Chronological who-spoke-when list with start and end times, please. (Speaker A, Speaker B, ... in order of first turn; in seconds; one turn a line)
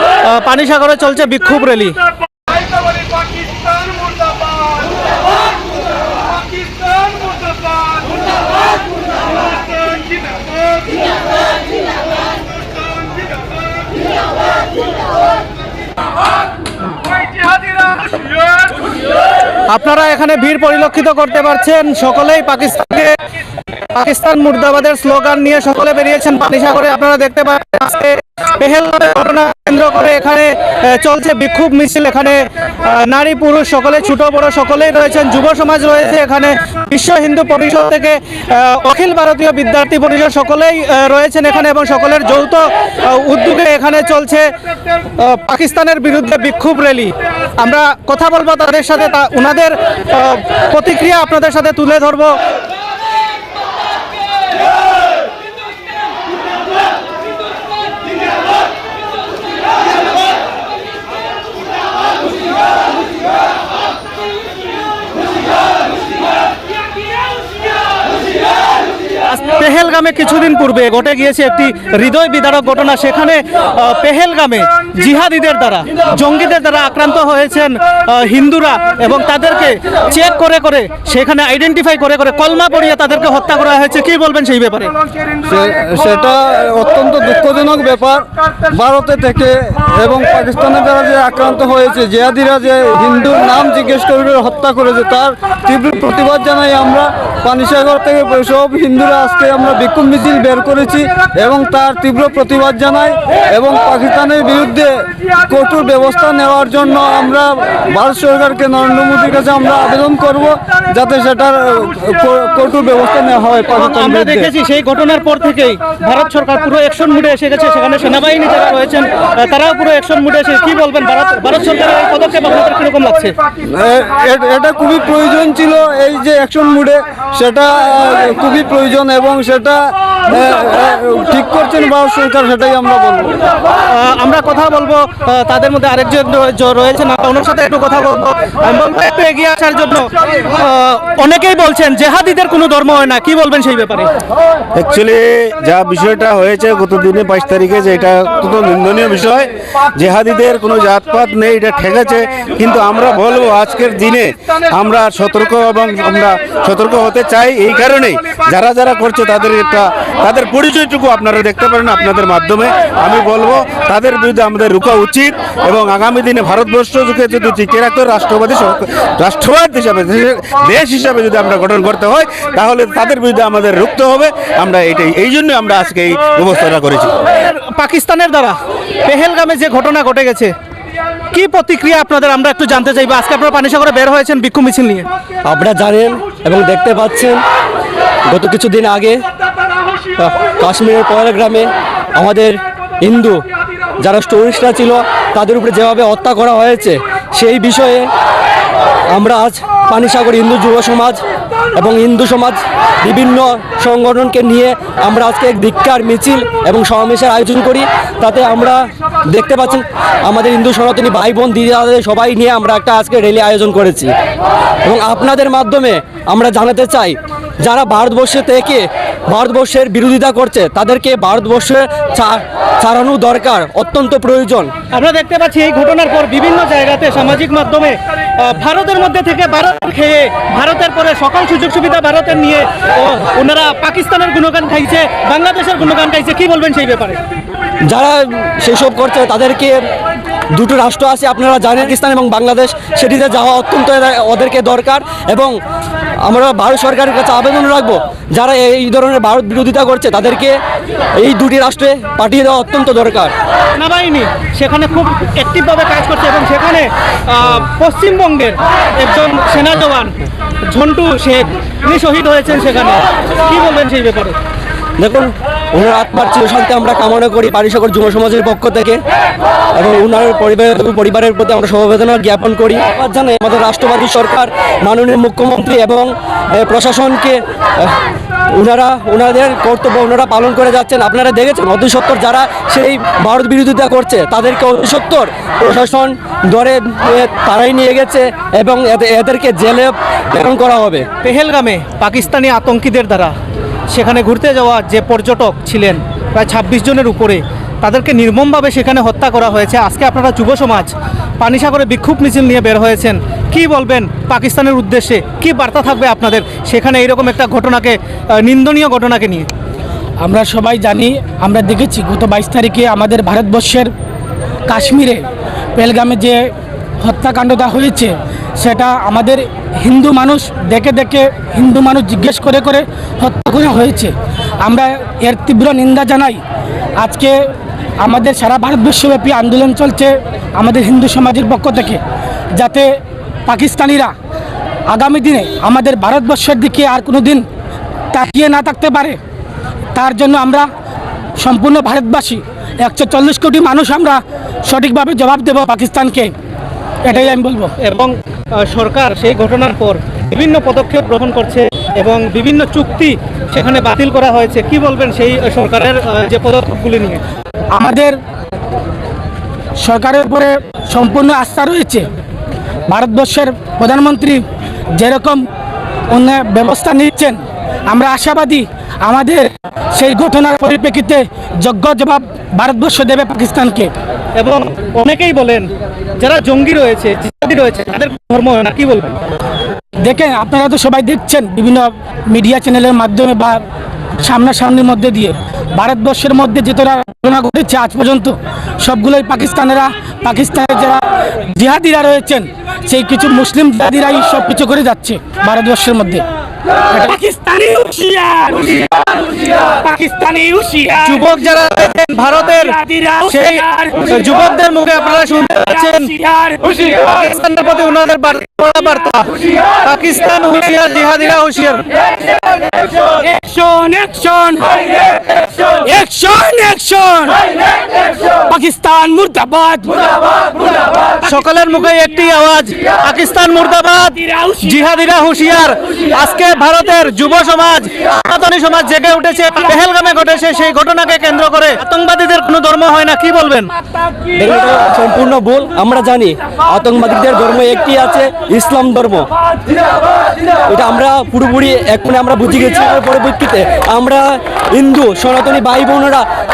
Speaker A: 0.2-2.0
Speaker A: 19.7-23.2
Speaker A: 23.9-44.5
Speaker A: 45.2-52.4
Speaker A: 69.3-84.9
Speaker B: 85.4-114.5
Speaker A: 113.8-123.4
Speaker B: 123.6-133.4
Speaker A: 133.9-144.1
Speaker C: 144.8-177.1
Speaker A: 177.3-180.5
Speaker A: 181.3-185.1
Speaker D: 185.4-187.4
Speaker D: 188.3-189.2
Speaker D: 190.2-193.4
Speaker D: 194.0-198.1
Speaker D: 199.1-201.2
Speaker D: 201.8-214.1
Speaker D: 214.8-224.7
Speaker A: 224.9-237.2
Speaker D: 237.8-239.8
Speaker D: 240.6-245.6
Speaker D: 246.2-250.5
Speaker D: 251.2-253.3
Speaker A: 253.8-260.2
Speaker A: 260.7-264.4
Speaker D: 265.0-269.0
Speaker D: 269.8-277.9
Speaker D: 278.5-291.1
Speaker A: 291.2-293.3
Speaker A: 293.9-309.5
Speaker E: 310.2-313.9
Speaker E: 314.7-315.2
Speaker E: 315.8-316.4
Speaker E: 317.0-326.4
Speaker E: 327.0-327.4
Speaker E: 328.0-332.0
Speaker E: 332.5-332.9
Speaker E: 333.5-334.1
Speaker E: 334.9-337.4
Speaker E: 338.1-339.2
Speaker E: 339.9-340.7
Speaker E: 341.4-346.3
Speaker E: 347.0-347.7
Speaker A: 347.1-357.2
Speaker E: 357.7-358.2
Speaker E: 359.8-362.1
Speaker E: 362.9-364.4
Speaker E: 364.9-365.5
Speaker E: 366.1-373.9
Speaker A: 374.4-379.2
Speaker E: 380.0-383.6
Speaker E: 384.2-396.2
Speaker E: 396.9-401.2
Speaker A: 401.0-406.1
Speaker E: 402.6-404.1
Speaker E: 405.8-406.7
Speaker A: 406.8-409.3
Speaker A: 409.8-411.8
Speaker E: 413.0-417.4
Speaker E: 418.2-420.2
Speaker A: 421.2-433.7
Speaker D: 434.4-439.3
Speaker D: 440.7-446.2